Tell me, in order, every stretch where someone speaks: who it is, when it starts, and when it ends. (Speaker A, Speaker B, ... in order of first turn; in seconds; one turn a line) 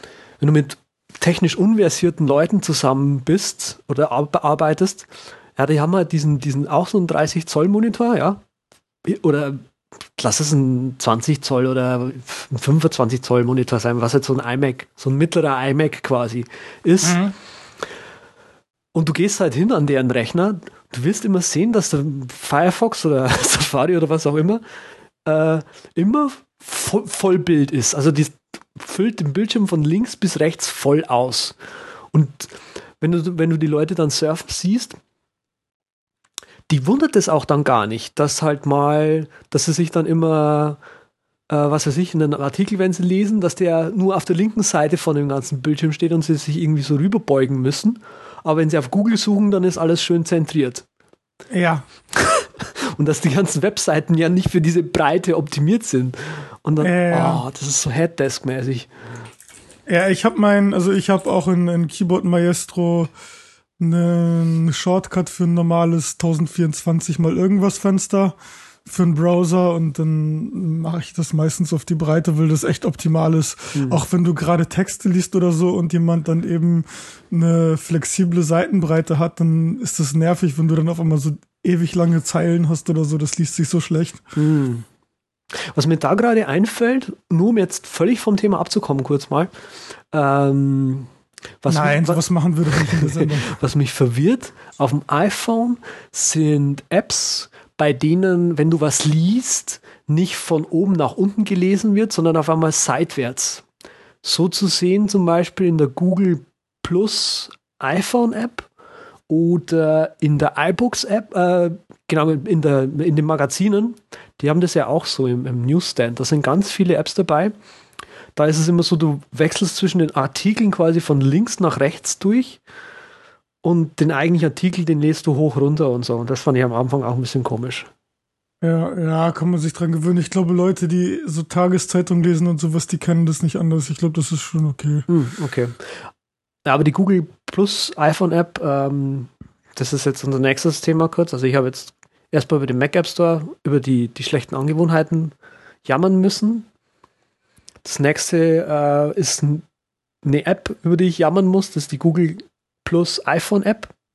Speaker A: 0.4-8.4
Speaker A: 9.0-9.6
Speaker A: 10.2-17.3
Speaker B: 17.0-17.3
Speaker A: 18.9-24.6
Speaker A: 25.2-31.6
Speaker A: 32.1-35.0
Speaker A: 36.7-40.8
Speaker A: 41.5-50.8
Speaker B: 51.5-51.8
Speaker A: 52.1-58.9
Speaker B: 56.8-57.4
Speaker B: 59.9-63.1
Speaker B: 63.8-84.2
Speaker A: 73.7-74.0
Speaker A: 84.3-84.8
Speaker A: 85.5-89.5
Speaker A: 90.1-91.1
Speaker A: 91.6-103.6
Speaker B: 91.7-93.5
Speaker A: 104.2-108.7
Speaker A: 109.3-117.5
Speaker A: 118.3-122.6
Speaker A: 123.6-127.9
Speaker B: 128.6-135.1
Speaker A: 135.1-136.1
Speaker A: 136.6-146.7
Speaker A: 147.8-149.6
Speaker A: 150.2-153.9